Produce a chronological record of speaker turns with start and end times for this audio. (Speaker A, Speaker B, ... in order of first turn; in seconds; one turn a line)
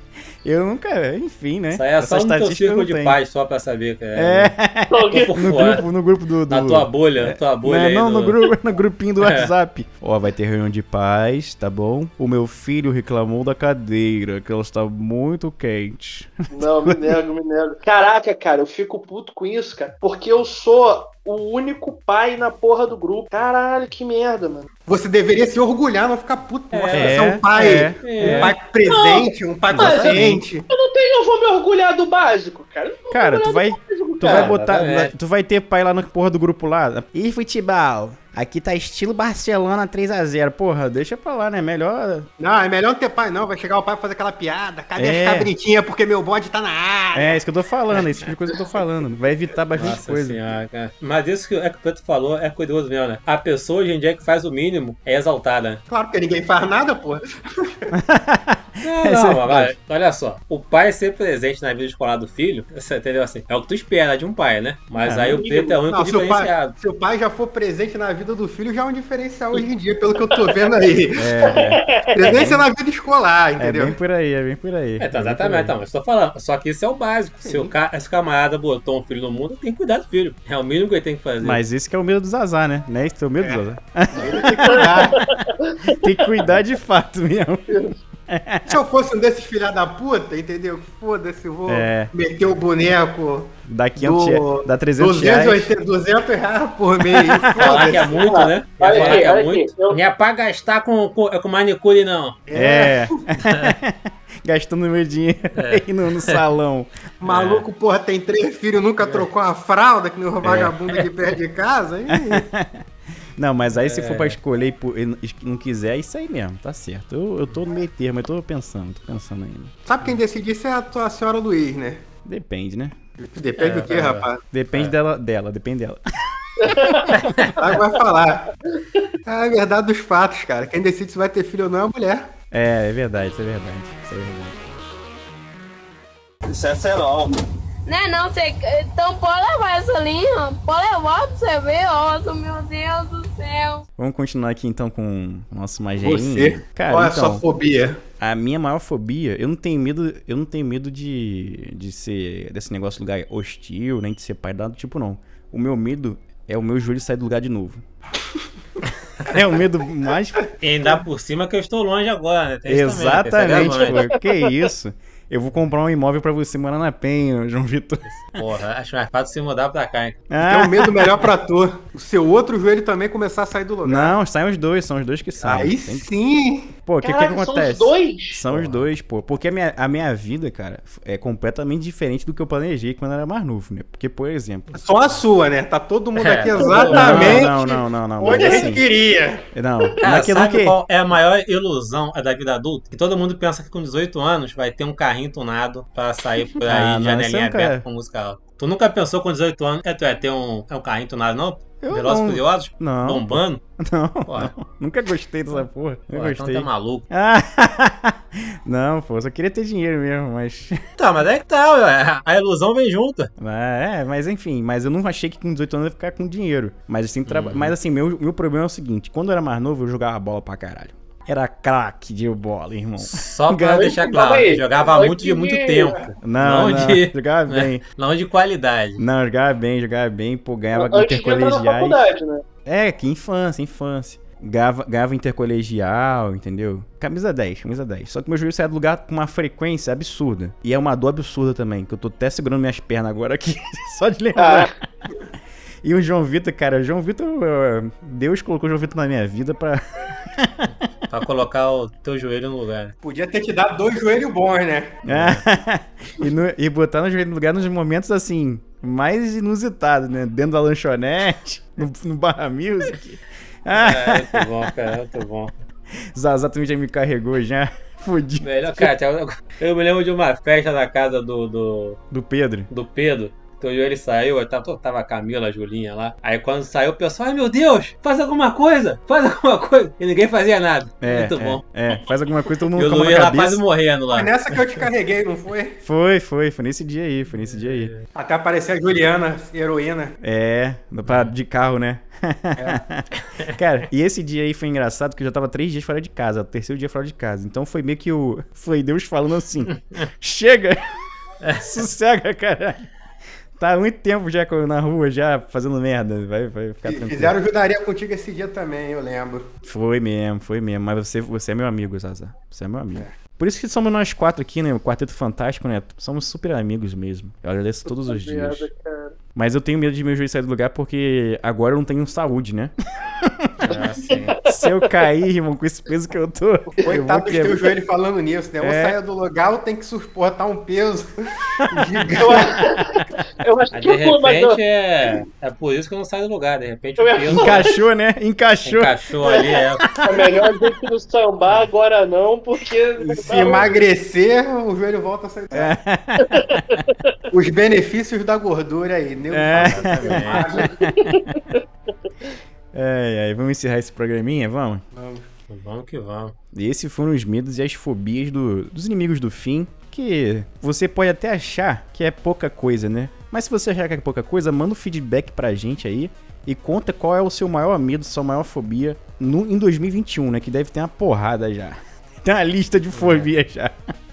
Speaker A: 0.4-3.2
Speaker B: 1.7-4.5
Speaker A: 4.2-17.2
Speaker C: 4.9-5.8
Speaker B: 5.1-5.9
Speaker B: 6.5-8.5
Speaker B: 9.2-9.5
Speaker C: 16.5-24.7
Speaker D: 24.9-30.7
Speaker B: 26.7-28.6
Speaker A: 26.9-28.5
Speaker C: 28.2-34.5
Speaker A: 29.7-30.4
Speaker A: 33.1-42.3
Speaker B: 34.2-35.1
Speaker D: 42.4-47.4
Speaker A: 45.0-45.5
Speaker A: 47.1-50.4
Speaker B: 49.8-55.8
Speaker D: 55.9-57.9
Speaker A: 57.9-59.8
Speaker B: 58.8-66.8
Speaker A: 65.0-65.5
Speaker C: 65.4-65.8
Speaker D: 65.9-74.0
Speaker A: 71.2-72.7
Speaker C: 71.4-72.1
Speaker A: 73.6-75.7
Speaker B: 75.0-81.6
Speaker D: 77.4-77.7
Speaker A: 81.4-85.1
Speaker D: 84.1-85.3
Speaker C: 84.7-86.0
Speaker A: 85.9-87.7
Speaker C: 87.7-88.0
Speaker A: 88.3-88.8
Speaker D: 88.7-98.3
Speaker A: 91.7-92.1
Speaker A: 93.7-95.7
Speaker A: 97.0-97.9
Speaker B: 97.6-102.4
Speaker C: 98.1-100.0
Speaker D: 98.9-99.3
Speaker D: 102.5-103.2
Speaker A: 102.5-106.9
Speaker B: 103.5-103.7
Speaker B: 105.6-106.4
Speaker D: 107.2-112.4
Speaker B: 107.2-107.7
Speaker B: 109.0-109.3
Speaker A: 110.4-110.7
Speaker B: 110.5-111.1
Speaker A: 112.1-112.8
Speaker A: 113.4-119.7
Speaker B: 113.8-114.4
Speaker D: 119.9-122.0
Speaker A: 122.2-123.0
Speaker D: 123.2-124.4
Speaker B: 123.6-124.9
Speaker A: 124.5-126.0
Speaker A: 126.6-127.1
Speaker C: 126.7-127.1
Speaker B: 127.2-127.6
Speaker D: 127.6-128.5
Speaker C: 128.7-129.1
Speaker D: 129.3-132.3
Speaker A: 132.5-134.7
Speaker C: 136.5-137.1
Speaker E: 137.9-143.8
Speaker A: 144.0-147.4
Speaker D: 146.0-148.0
Speaker A: 148.2-157.8
Speaker A: 159.3-160.5
Speaker B: 160.6-164.0
Speaker A: 162.7-168.4
Speaker C: 164.1-164.5
Speaker B: 168.3-170.2
Speaker A: 170.3-171.2
Speaker D: 170.4-174.2
Speaker A: 173.8-176.1
Speaker D: 175.4-176.7
Speaker A: 176.9-184.7
Speaker C: 177.0-178.4
Speaker B: 178.5-178.8
Speaker D: 184.7-189.4
Speaker B: 186.2-187.5
Speaker A: 186.8-188.8
Speaker B: 188.3-188.6
Speaker A: 189.5-190.8
Speaker B: 190.0-203.6
Speaker A: 196.6-197.8
Speaker A: 201.8-210.8
Speaker B: 204.3-204.5
Speaker B: 206.1-207.1
Speaker B: 211.0-213.3
Speaker A: 213.4-224.0
Speaker B: 217.3-217.7
Speaker B: 223.0-229.0
Speaker C: 223.7-226.1
Speaker A: 226.2-227.8
Speaker A: 229.0-232.0
Speaker C: 230.7-232.4
Speaker A: 232.7-244.7
Speaker C: 244.4-244.7
Speaker A: 245.8-250.7
Speaker B: 251.1-252.9
Speaker D: 253.0-254.9
Speaker A: 255.1-264.5
Speaker B: 255.1-255.4
Speaker B: 263.7-265.5
Speaker A: 266.1-268.9
Speaker B: 268.4-272.0
Speaker A: 272.1-272.7
Speaker B: 272.7-281.6
Speaker A: 281.0-283.6
Speaker B: 282.8-284.9
Speaker D: 284.1-285.8
Speaker A: 285.8-287.9
Speaker B: 287.6-288.1
Speaker D: 288.1-290.2
Speaker A: 290.2-300.8
Speaker B: 301.4-301.7
Speaker A: 301.6-302.9
Speaker A: 303.6-307.3
Speaker D: 306.8-309.5
Speaker A: 309.6-318.7
Speaker C: 317.9-319.2
Speaker A: 319.4-323.7
Speaker B: 323.6-324.4
Speaker C: 324.3-324.7
Speaker A: 324.5-327.6
Speaker D: 326.9-332.7
Speaker A: 328.6-329.0
Speaker C: 332.2-335.3
Speaker B: 333.7-337.7
Speaker C: 337.0-337.8
Speaker A: 337.3-338.9
Speaker B: 338.6-339.9
Speaker C: 339.2-343.7
Speaker A: 339.9-340.7
Speaker D: 343.0-345.8
Speaker A: 345.5-346.9
Speaker C: 346.2-346.9
Speaker D: 347.3-350.8
Speaker A: 349.3-351.4
Speaker B: 349.5-350.6
Speaker C: 350.9-352.3
Speaker A: 352.7-354.8
Speaker D: 354.9-355.3
Speaker B: 355.5-356.3
Speaker A: 356.5-373.8
Speaker B: 372.9-373.3